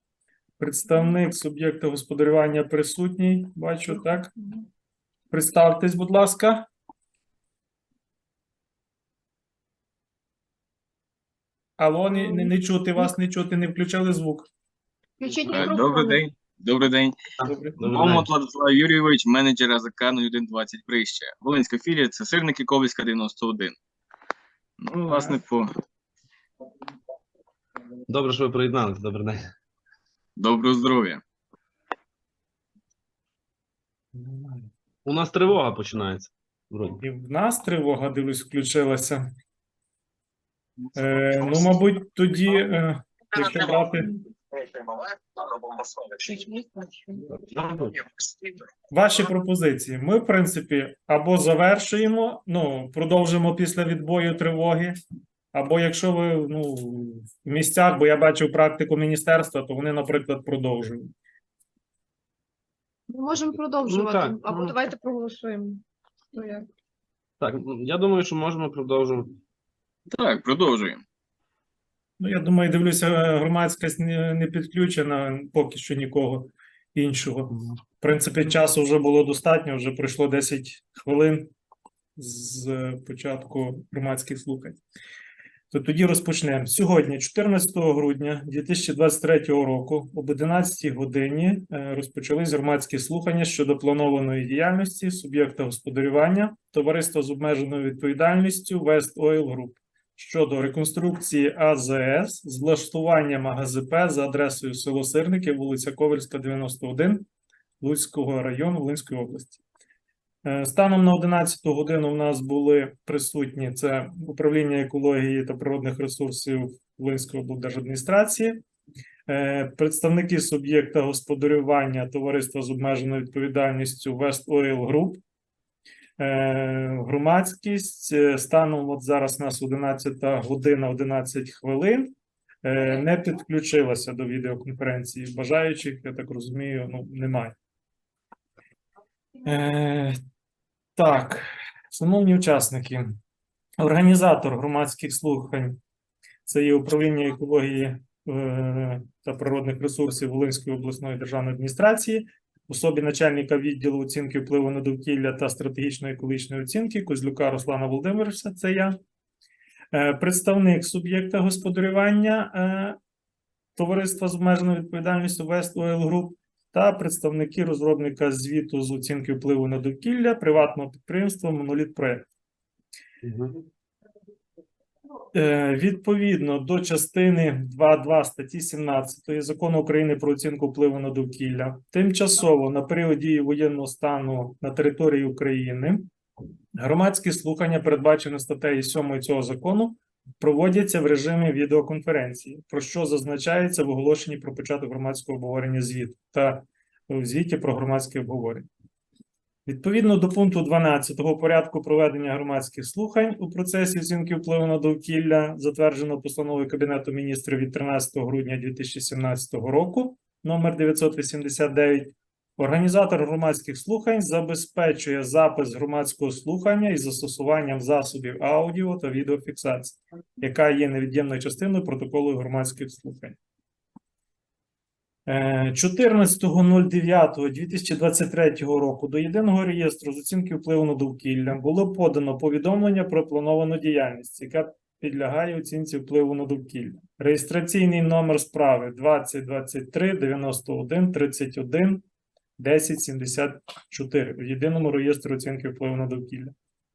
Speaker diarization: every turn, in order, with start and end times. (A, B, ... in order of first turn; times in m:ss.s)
0:00.6-0:04.3 A
0:05.3-0:06.7 A
0:11.8-0:14.5 A
0:12.2-0:12.5 B
0:15.2-0:16.2 B
0:15.5-0:17.2 C
0:17.4-0:18.3 D
0:17.5-0:17.8 A
0:17.8-0:23.7 C
0:24.8-0:25.7 C
0:25.1-0:25.4 A
0:28.1-0:29.4 D
0:30.4-0:31.2 C
0:34.1-0:34.7 A
0:35.0-0:37.0 D
0:37.0-0:39.3 A
0:41.0-0:44.2 A
0:46.2-0:47.2 B
0:47.3-0:48.0 D
0:48.9-0:54.9 A
0:55.5-1:01.1 A
1:03.1-1:05.8 B
1:03.8-1:04.8 D
1:06.3-1:06.6 B
1:07.4-1:09.3 D
1:10.1-1:11.0 C
1:12.2-1:21.5 A
1:22.2-1:24.8 A
1:25.7-1:47.2 A
1:47.8-1:49.6 A
1:50.4-1:58.6 A
1:59.3-2:05.2 A
2:06.2-2:12.1 A
2:12.6-2:17.5 A
2:19.4-2:20.2 A
2:21.0-2:23.2 A
2:23.8-2:25.8 A
2:26.4-2:39.0 A
2:39.9-2:43.0 A
2:43.8-2:52.2 A
2:53.2-2:53.6 D
2:55.3-3:06.1 A
3:06.8-3:18.7 A
3:19.6-3:43.4 A
3:45.3-4:02.0 A
4:02.6-4:06.5 A